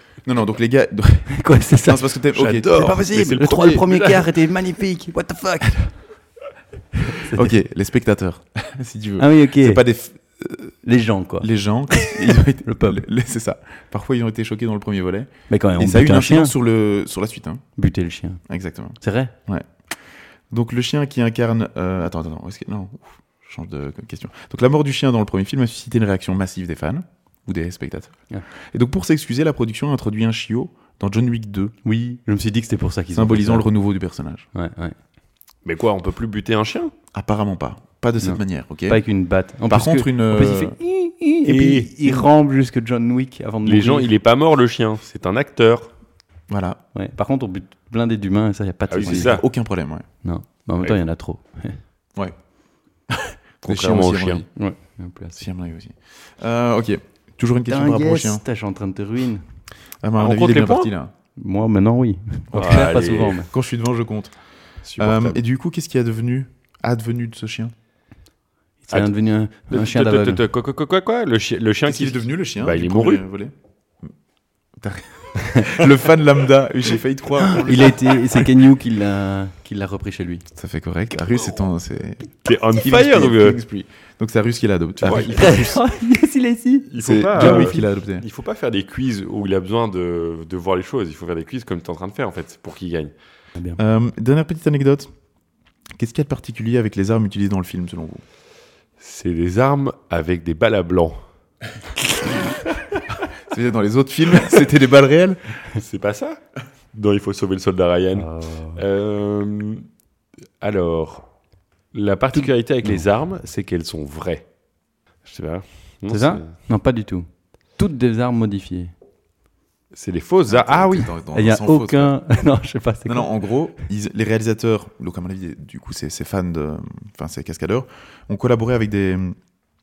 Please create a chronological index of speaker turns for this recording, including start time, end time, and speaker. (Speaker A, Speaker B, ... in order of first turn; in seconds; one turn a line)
Speaker A: 0.2-3.0
Speaker B: 1.3-6.0
Speaker C: 2.4-4.2
Speaker B: 7.1-7.5
Speaker A: 7.3-10.7
Speaker B: 9.2-9.8
Speaker B: 10.8-13.1
Speaker A: 11.4-17.6
Speaker B: 15.5-16.6
Speaker B: 17.8-18.4
Speaker A: 18.5-19.7
Speaker B: 19.0-19.3
Speaker A: 20.5-31.8
Speaker B: 31.9-33.7
Speaker A: 33.1-34.5
Speaker B: 34.5-35.0
Speaker C: 35.6-36.9
Speaker A: 37.1-39.0
Speaker B: 38.2-44.1
Speaker A: 39.7-40.8
Speaker C: 41.4-42.2
Speaker C: 43.6-45.9
Speaker A: 46.5-46.8
Speaker B: 47.0-49.5
Speaker C: 48.9-49.4
Speaker A: 49.0-50.1
Speaker B: 50.2-51.8
Speaker C: 53.6-54.5
Speaker A: 53.6-54.5
Speaker B: 54.6-55.4
Speaker A: 55.4-58.4
Speaker B: 57.7-59.4
Speaker A: 60.0-61.1
Speaker C: 60.2-60.9
Speaker B: 61.4-63.5
Speaker C: 62.5-63.5
Speaker A: 63.5-64.3
Speaker C: 64.8-65.4
Speaker A: 65.0-67.7
Speaker B: 68.8-70.4
Speaker C: 69.7-73.2
Speaker A: 71.9-73.5
Speaker A: 74.8-78.2
Speaker B: 77.4-80.5
Speaker A: 80.5-85.8
Speaker C: 82.4-83.6
Speaker C: 85.0-85.7
Speaker B: 85.1-87.9
Speaker C: 86.9-93.1
Speaker A: 87.0-88.2
Speaker B: 93.5-93.8
Speaker A: 93.8-95.1
Speaker A: 96.0-98.2
Speaker C: 99.0-101.2
Speaker A: 103.4-105.4
Speaker C: 105.7-106.4
Speaker C: 106.9-109.9
Speaker B: 108.1-108.8
Speaker C: 110.6-111.3
Speaker C: 111.9-114.5
Speaker B: 112.3-113.0
Speaker C: 115.2-116.5
Speaker B: 116.1-118.9
Speaker C: 119.9-121.1
Speaker A: 120.5-122.2
Speaker B: 121.3-123.4
Speaker A: 123.1-129.4